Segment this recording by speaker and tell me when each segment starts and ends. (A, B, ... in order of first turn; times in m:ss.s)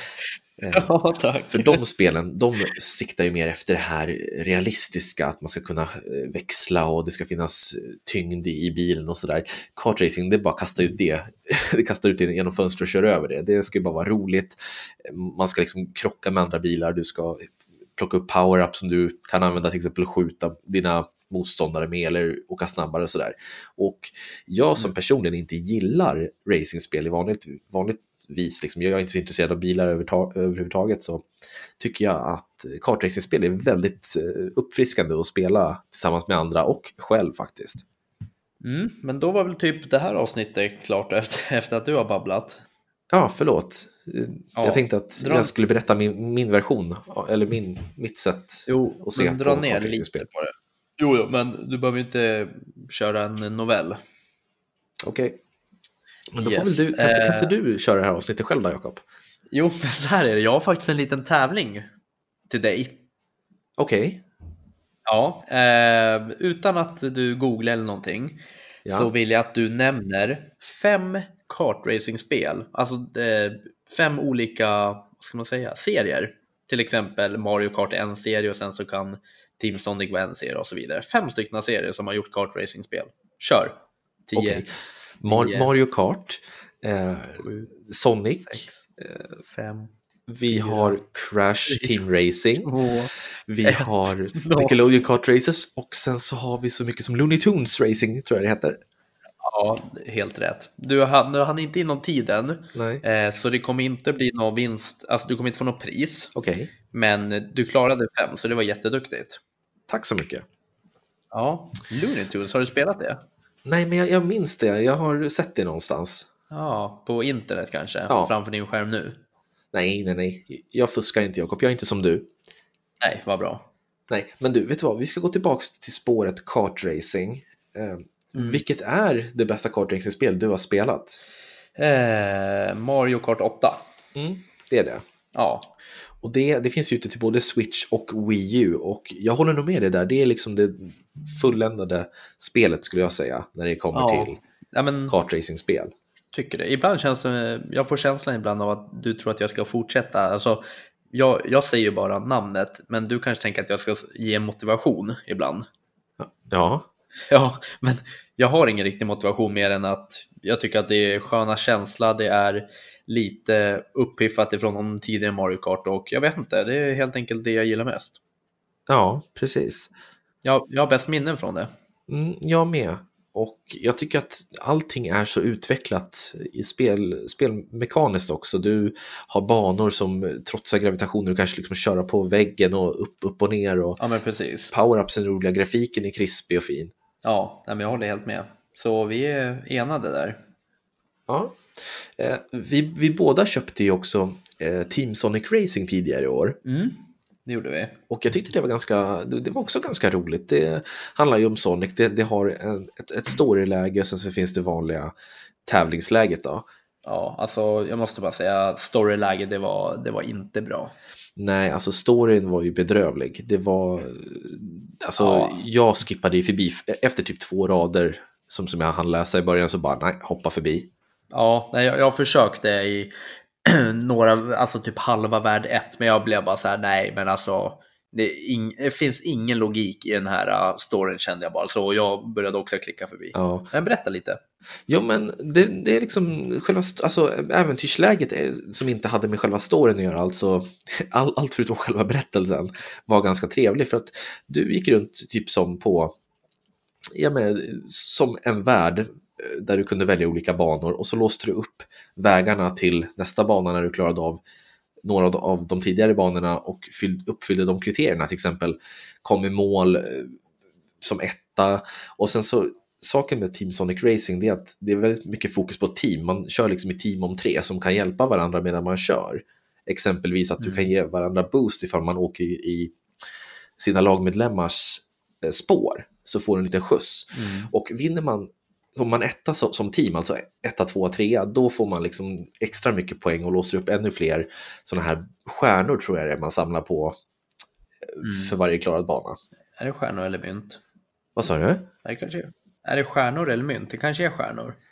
0:00.6-0:00.9 A
0:00.7-0:01.8 B
0:01.5-0:31.3 A
0:31.8-0:37.8 A
0:38.6-0:42.6 B
0:43.1-0:50.3 A
0:44.6-0:45.5 B
0:48.7-0:54.0 B
0:55.0-0:55.4 A
0:56.3-0:59.0 A
0:56.4-0:57.5 B
0:59.5-1:01.9 B
1:02.5-1:03.0 B
1:03.8-1:04.2 A
1:05.1-1:24.6 B
1:08.9-1:09.1 A
1:24.4-1:24.7 A
1:25.2-1:25.7 B
1:25.2-1:28.6 A
1:27.4-1:27.7 B
1:28.4-1:29.9 B
1:30.3-1:32.7 A
1:30.5-1:31.0 B
1:31.7-1:32.0 B
1:32.6-1:33.1 B
1:33.5-1:38.8 A
1:33.6-1:34.8 B
1:39.4-1:46.3 B
1:42.7-1:43.0 A
1:46.4-1:46.7 A
1:46.9-1:49.4 B
1:49.9-1:50.4 A
1:51.3-1:53.2 B
1:53.6-1:56.3 A
1:56.5-1:59.2 B
1:59.7-2:02.3 A
2:03.0-2:03.7 B
2:04.1-2:11.2 A
2:08.4-2:08.6 B
2:11.8-2:13.8 B
2:14.2-2:15.0 A
2:15.3-2:15.7 B
2:16.2-2:24.4 A
2:23.9-2:25.2 B
2:25.1-2:25.9 A
2:26.3-2:35.7 B
2:36.2-2:36.9 A
2:37.3-2:48.2 B
2:48.9-2:49.9 A
2:50.4-2:51.7 B
2:52.1-3:04.0 A
3:04.0-3:04.7 B
3:04.7-3:06.9 A
3:07.2-3:10.4 B
3:11.3-3:16.6 A
3:16.6-3:18.0 B
3:18.1-3:25.1 A
3:25.7-3:26.7 A
3:27.0-3:30.9 B
3:31.4-3:40.9 A
3:35.2-3:35.6 B
3:41.3-3:43.1 B
3:43.6-3:54.4 B
3:53.3-3:53.7 A
3:54.9-4:06.2 A
4:07.2-4:14.4 A
4:15.0-4:20.4 A
4:21.0-4:32.9 A
4:30.6-4:30.9 B
4:33.8-4:47.2 A
4:37.3-4:37.7 B
4:48.1-4:49.4 A
4:48.2-4:48.6 B
4:49.8-4:50.8 B
4:51.4-4:51.9 A
4:52.0-4:54.8 B